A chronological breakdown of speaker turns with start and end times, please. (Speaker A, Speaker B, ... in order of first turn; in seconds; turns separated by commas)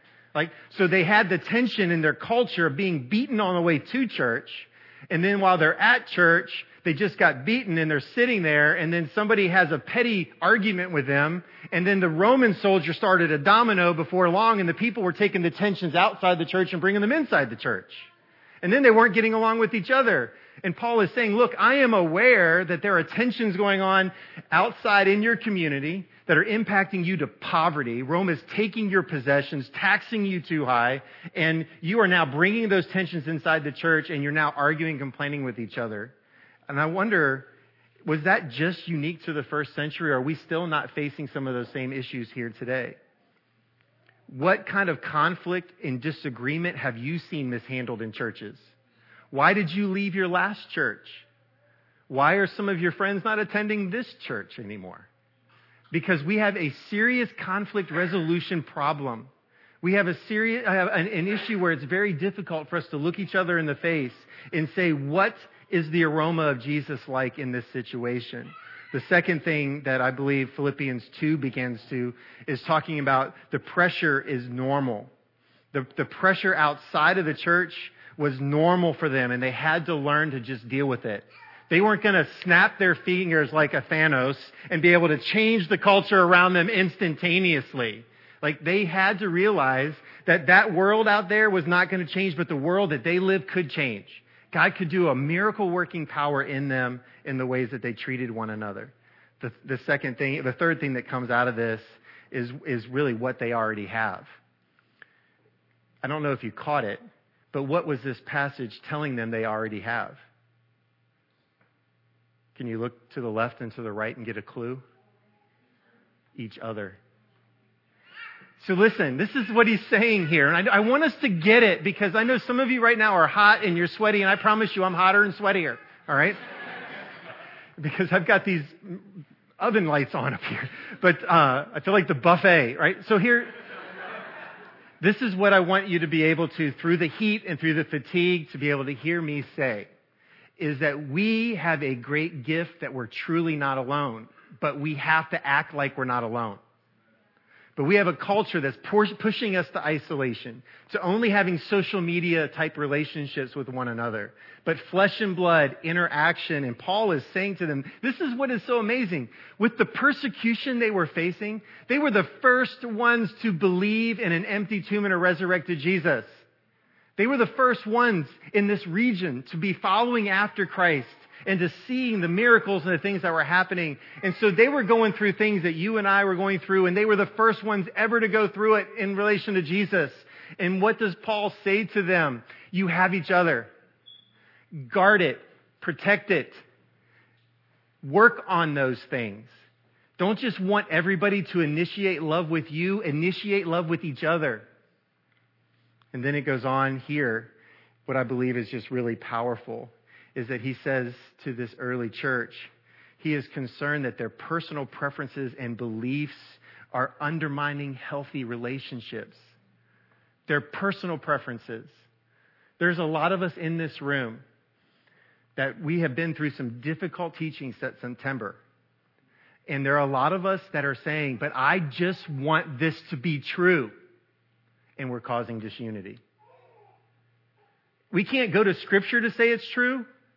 Speaker A: 0.3-18.1, Speaker A: 18.6-36.1, Speaker A: 36.7-37.5, Speaker A: 38.0-43.0, Speaker A: 44.3-48.7, Speaker A: 49.3-51.3, Speaker A: 52.1-55.1, Speaker A: 55.9-59.3, Speaker A: 59.8-75.1, Speaker A: 75.7-104.3, Speaker A: 106.0-110.2, Speaker A: 112.5-114.8, Speaker A: 116.3-117.0, Speaker A: 118.6-126.4, Speaker A: 127.8-133.5, Speaker A: 135.0-139.9, Speaker A: 140.6-146.6, Speaker A: 147.8-166.3, Speaker A: 167.2-183.7, Speaker A: 184.7-186.6, Speaker A: 188.0-189.5, Speaker A: 190.2-194.7, Speaker A: 196.1-197.5, Speaker A: 198.1-209.5, Speaker A: 210.5-212.0, Speaker A: 212.8-214.4, Speaker A: 215.6-218.6, Speaker A: 219.7-223.9, Speaker A: 225.0-226.2, Speaker A: 228.1-230.1